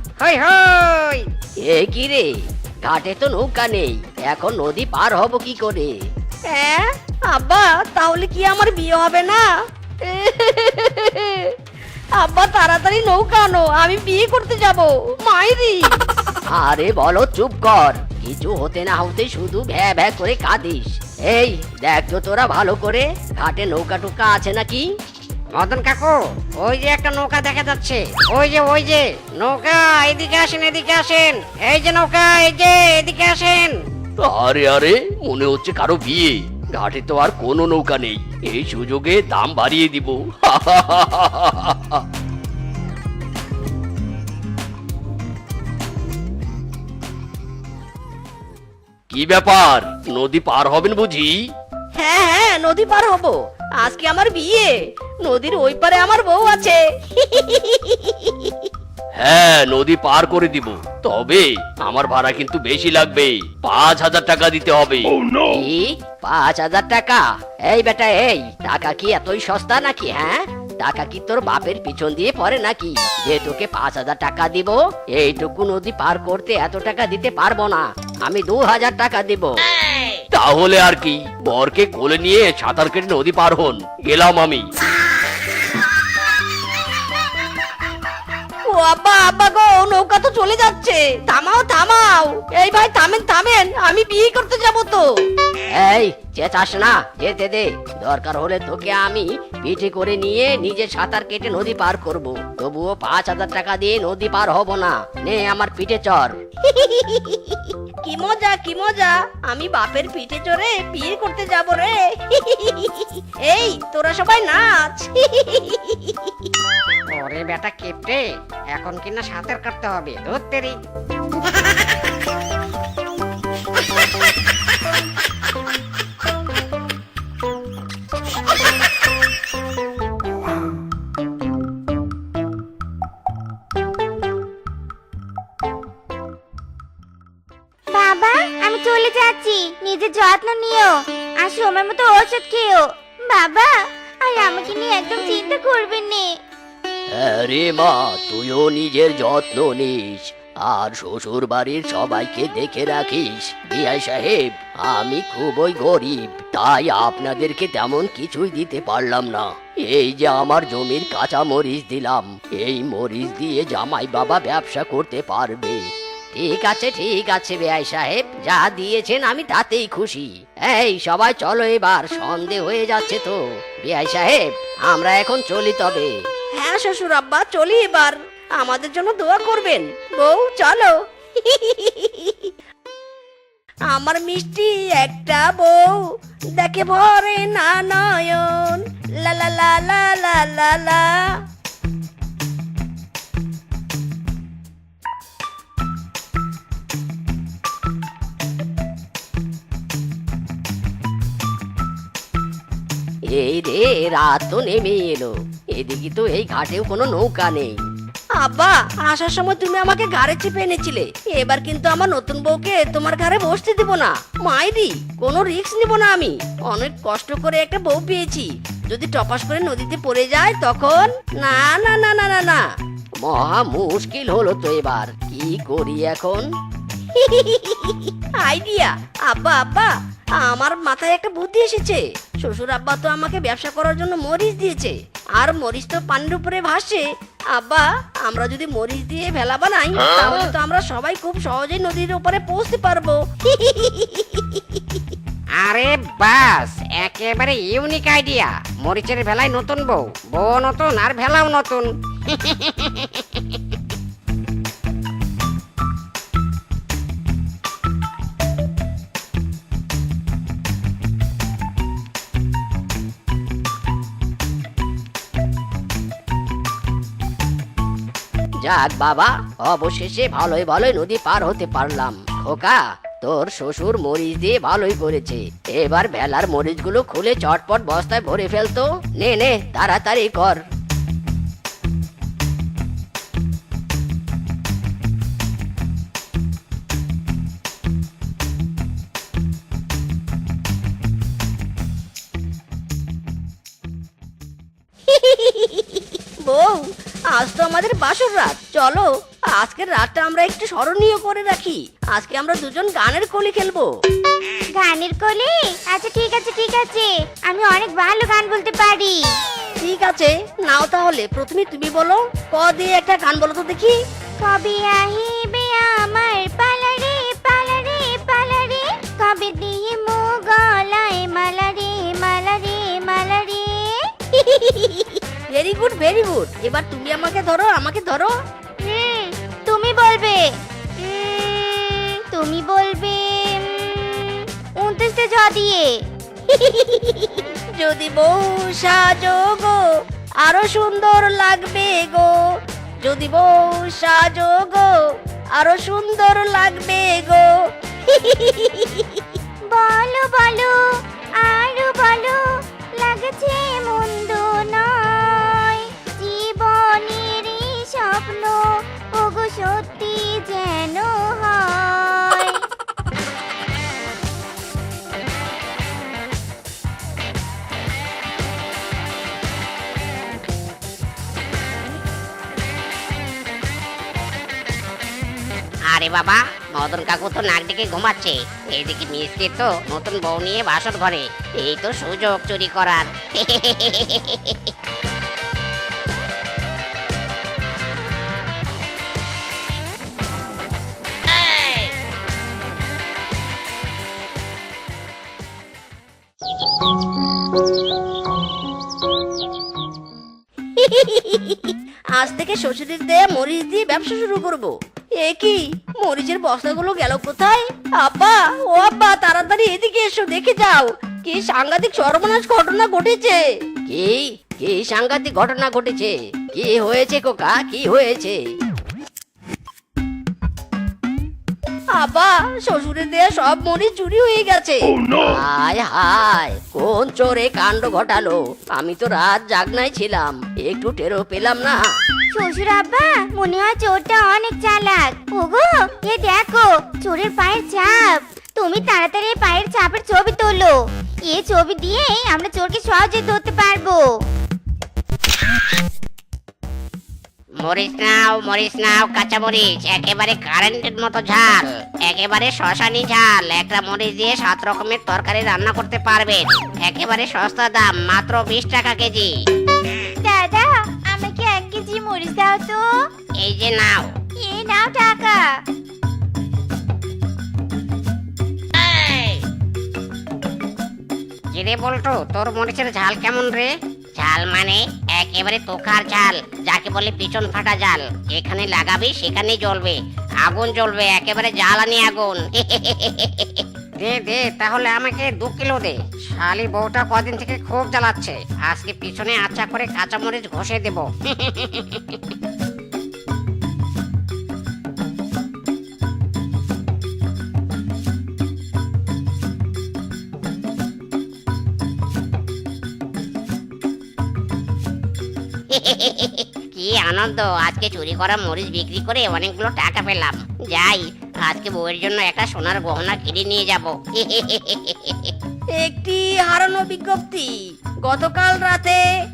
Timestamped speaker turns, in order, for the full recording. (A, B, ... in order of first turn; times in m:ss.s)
0:00.2-0:01.3 A
0:01.6-0:02.3 B
0:02.8-0:05.9 B
0:06.5-0:09.5 C
0:10.0-0:11.6 C
0:12.2-0:16.0 C
0:16.5-0:24.9 B
0:25.6-0:33.8 A
0:34.2-0:42.0 D
0:49.1-0:51.4 D
0:52.0-0:54.7 C
0:55.2-0:58.4 C
0:59.2-1:05.1 D
1:05.4-1:19.5 B
1:20.3-1:24.6 D
1:28.7-1:35.1 C
1:35.7-1:46.4 B
1:48.0-1:56.4 C
1:57.1-2:00.8 A
2:01.4-2:02.0 A
2:17.9-2:26.4 E
2:27.2-2:30.3 D
2:28.4-2:29.9 B
2:30.7-2:56.1 B
2:31.0-2:31.6 D
2:56.6-3:02.5 C
3:03.9-3:06.0 C
3:06.6-3:11.4 C
3:23.3-3:27.8 B
3:28.4-3:42.6 C
3:43.2-3:46.5 B
3:47.2-4:03.2 C
4:03.5-4:04.6 A
4:05.6-4:13.6 A
4:28.6-4:40.6 B
4:55.1-4:55.8 C
4:56.5-5:03.9 C
5:04.8-5:09.3 E
5:09.8-5:14.0 C
5:14.4-5:24.1 E
5:24.8-5:25.2 E
5:25.5-5:28.3 C
5:28.8-5:36.0 E
5:36.5-5:37.2 C
5:37.8-5:39.8 C
5:40.4-5:42.3 C
5:43.0-5:45.0 C
5:45.6-5:47.5 C
5:48.0-5:49.2 C
5:49.7-5:50.8 E
5:51.4-5:52.4 E
5:53.0-6:02.6 E
6:15.9-6:24.7 A
6:40.8-6:53.4 C
6:53.9-6:58.4 B
7:02.0-7:05.0 C
7:05.3-7:11.8 B
7:12.4-7:24.1 E
7:27.6-7:39.3 A
7:40.2-7:42.9 E
7:43.4-7:44.1 A
7:44.4-7:45.6 E
7:51.5-8:12.2 A
8:25.7-8:35.3 A
8:35.8-8:37.5 C
8:38.0-8:39.0 C